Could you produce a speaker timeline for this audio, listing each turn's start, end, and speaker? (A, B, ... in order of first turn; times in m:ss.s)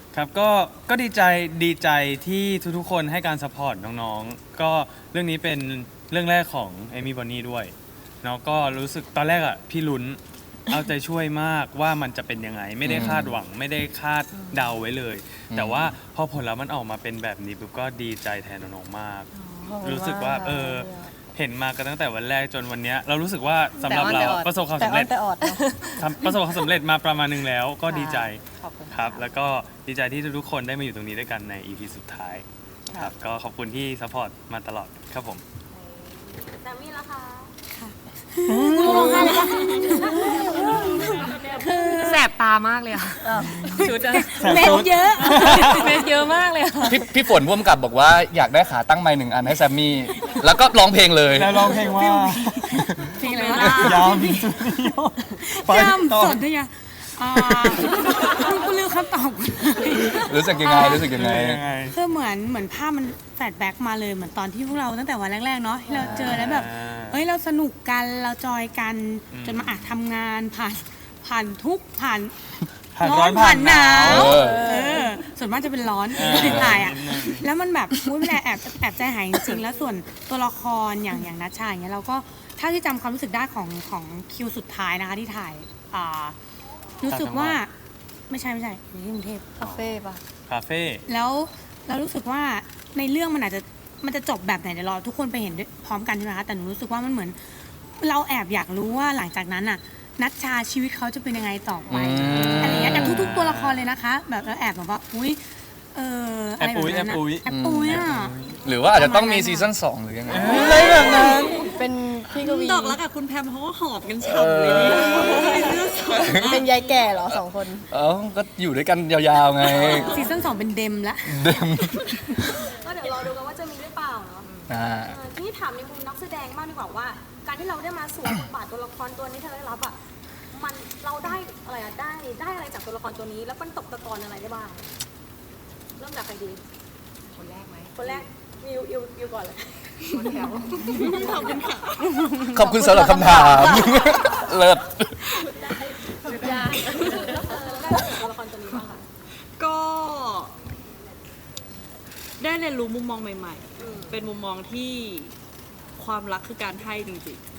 0:00.1-0:25.1 A
0:12.8-0:13.4 B
0:15.5-0:16.0 B
0:19.6-0:21.1 C
0:23.8-0:24.5 D
0:23.9-0:26.0 C
0:25.4-0:26.0 D
0:26.0-0:28.4 A
0:27.8-0:29.3 D
0:28.9-0:35.4 A
0:35.8-0:37.6 E
0:37.7-0:40.2 F
0:38.7-0:41.5 E
0:38.9-0:39.3 D
0:39.2-0:40.7 C
0:41.2-0:42.2 F
0:41.9-0:47.1 D
0:43.2-0:43.9 C
0:44.1-0:46.0 F
0:44.4-0:45.8 A
0:46.9-0:51.7 B
0:51.3-0:52.6 A
0:51.8-0:54.5 F
0:53.2-0:54.4 G
0:53.7-0:56.4 A
0:55.4-1:01.1 F
0:57.3-0:57.7 A
1:00.2-1:01.6 B
1:01.0-1:02.0 A
1:01.9-1:12.3 F
1:06.0-1:07.2 A
1:09.3-1:10.0 A
1:12.9-1:14.3 A
1:13.0-1:26.3 F
1:14.0-1:14.7 B
1:14.1-1:15.2 C
1:16.1-1:17.5 A
1:16.4-1:16.9 B
1:27.0-1:27.7 F
1:27.1-1:27.6 A
1:28.3-1:29.5 F
1:29.6-1:30.2 C
1:29.6-1:30.0 A
1:30.5-1:31.0 A
1:31.1-1:37.4 F
1:38.0-1:45.4 F
1:41.9-1:43.2 B
1:42.1-1:43.9 A
1:45.9-1:48.3 F
1:46.6-1:48.6 A
1:47.4-1:48.1 B
1:48.6-1:50.7 B
1:48.9-1:49.7 F
1:50.3-1:51.2 A
1:50.3-1:53.0 C
1:50.5-1:56.8 G
1:54.2-1:54.8 B
1:54.7-1:57.9 C
1:56.1-1:56.5 B
1:56.8-1:57.1 E
1:57.9-2:00.2 B
1:59.7-2:00.4 G
2:00.0-2:01.4 F
2:01.2-2:02.6 B
2:02.6-2:04.5 E
2:04.7-2:05.2 B
2:05.1-2:10.0 E
2:10.5-2:14.9 E
2:16.0-2:16.6 E
2:17.3-2:18.2 H
2:17.9-2:20.0 E
2:20.1-2:21.4 H
2:20.9-2:22.4 G
2:21.0-2:21.6 E
2:22.5-2:25.3 B
2:23.2-2:24.5 G
2:26.2-2:27.6 H
2:26.3-2:29.0 E
2:26.7-2:27.2 G
2:29.6-2:30.5 G
2:32.4-2:35.3 G
2:33.8-2:34.1 E
2:36.0-2:37.4 G